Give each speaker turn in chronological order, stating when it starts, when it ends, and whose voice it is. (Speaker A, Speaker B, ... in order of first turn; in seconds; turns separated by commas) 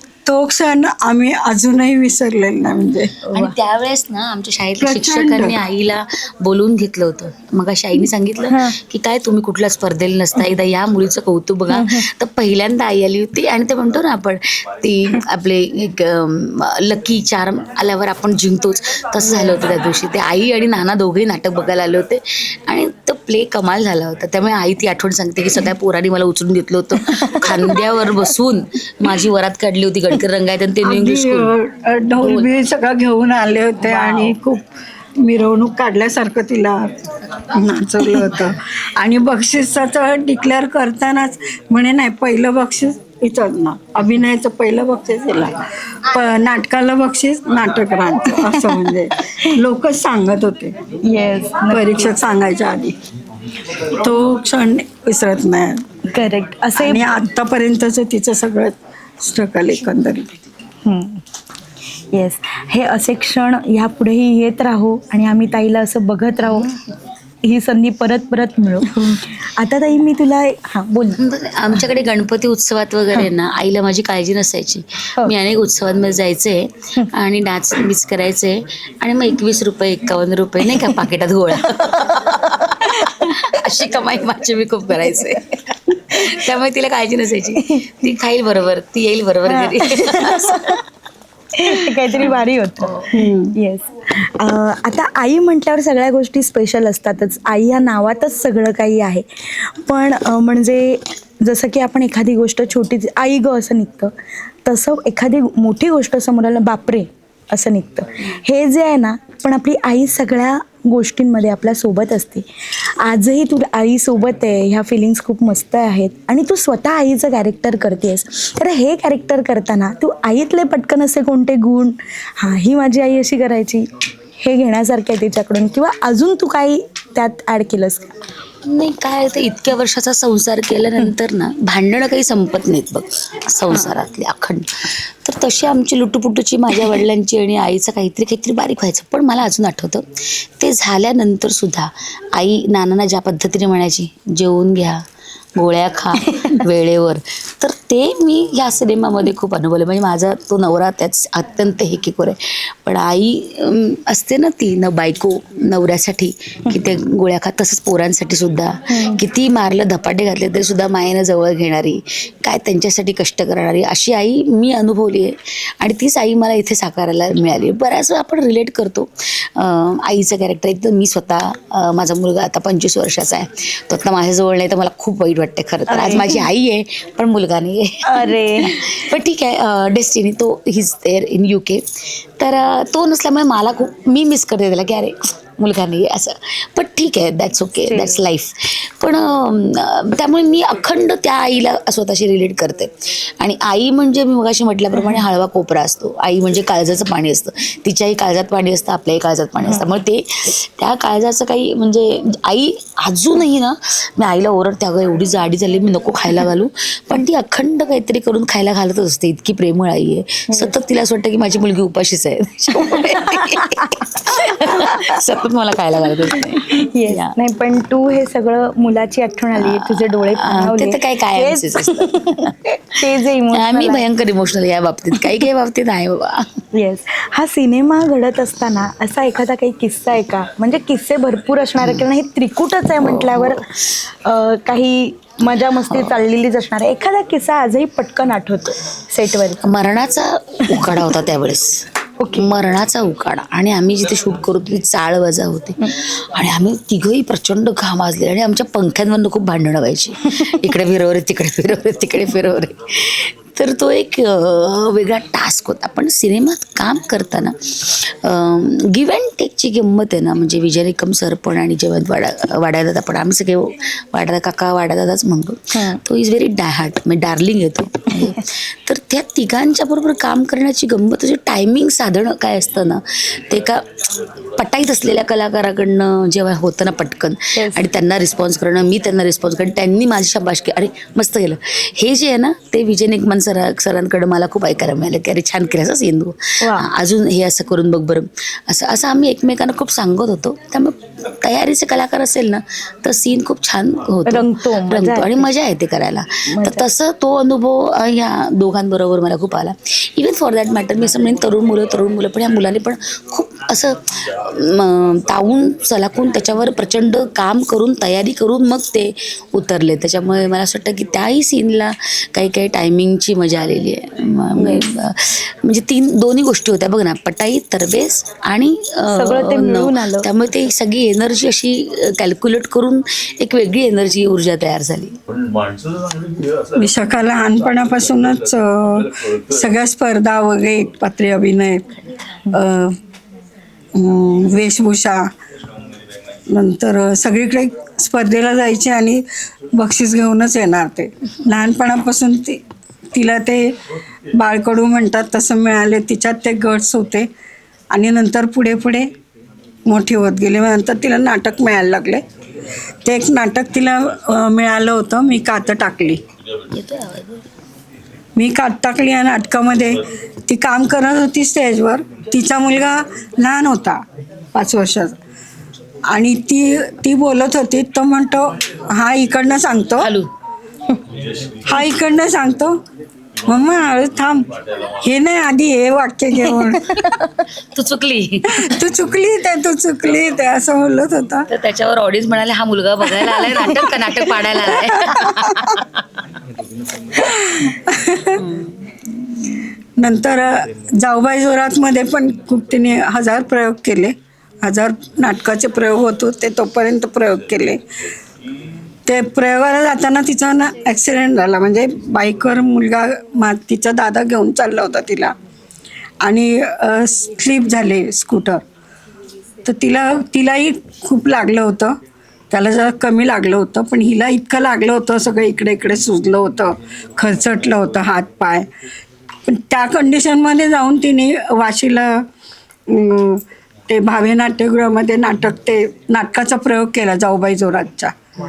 Speaker A: 0.2-3.1, Speaker B: 3.3-3.6, Speaker C: 3.3-31.5, Speaker A: 4.8-5.6, Speaker B: 8.5-8.8, Speaker B: 11.7-12.1, Speaker B: 27.0-27.8, Speaker A: 30.8-34.7, Speaker C: 32.2-32.5, Speaker C: 33.9-34.3, Speaker A: 35.2-37.0, Speaker A: 37.5-50.7, Speaker B: 51.1-52.1, Speaker A: 51.7-52.9, Speaker A: 54.0-55.8, Speaker B: 56.1-57.2, Speaker A: 56.8-60.3, Speaker B: 60.9-61.2, Speaker B: 62.1-66.7, Speaker B: 67.4-71.2, Speaker C: 71.2-90.8, Speaker B: 81.7-83.3, Speaker B: 87.5-87.8, Speaker B: 89.5-90.8, Speaker B: 91.6-104.1, Speaker C: 91.6-92.3, Speaker A: 93.1-93.6, Speaker B: 104.6-112.5, Speaker B: 113.0-123.9, Speaker B: 124.4-128.1, Speaker C: 128.7-134.7, Speaker C: 135.2-140.1, Speaker C: 140.6-145.0, Speaker C: 145.6-181.8, Speaker B: 158.9-159.2, Speaker B: 175.9-176.5, Speaker B: 178.1-178.9, Speaker C: 182.4-200.2, Speaker B: 187.9-188.2, Speaker B: 194.9-195.2, Speaker C: 200.8-217.3, Speaker B: 212.9-213.9, Speaker B: 214.7-215.2, Speaker B: 216.7-224.1, Speaker C: 219.6-222.6, Speaker C: 223.5-226.5, Speaker B: 226.7-233.6, Speaker C: 233.0-233.6, Speaker B: 234.2-239.6, Speaker C: 235.8-236.2, Speaker C: 239.6-273.8, Speaker B: 242.2-242.5, Speaker B: 265.7-266.0, Speaker C: 274.6-325.2, Speaker B: 277.6-277.8, Speaker B: 286.6-286.9, Speaker B: 294.3-295.5, Speaker B: 296.5-296.8, Speaker B: 314.6-314.9, Speaker B: 319.1-320.3, Speaker A: 326.8-331.8, Speaker A: 332.5-332.9, Speaker A: 334.0-335.2, Speaker A: 336.5-342.6, Speaker A: 343.1-343.6, Speaker A: 344.4-347.3, Speaker A: 347.9-349.1, Speaker A: 349.9-352.2, Speaker A: 353.0-356.2, Speaker C: 356.7-357.4, Speaker A: 358.4-364.0, Speaker A: 364.5-365.1, Speaker A: 366.1-370.1, Speaker C: 370.0-370.3, Speaker A: 371.6-372.8, Speaker A: 373.5-374.5, Speaker A: 375.0-377.0, Speaker B: 376.4-377.4, Speaker C: 377.8-378.8, Speaker A: 378.5-381.5, Speaker C: 381.5-386.0, Speaker B: 383.5-383.9, Speaker A: 387.2-388.4, Speaker C: 388.4-388.8, Speaker A: 390.0-397.8, Speaker A: 399.1-405.3, Speaker A: 406.2-408.6, Speaker A: 409.6-411.9, Speaker A: 412.5-418.6, Speaker A: 419.5-422.2, Speaker A: 422.9-428.1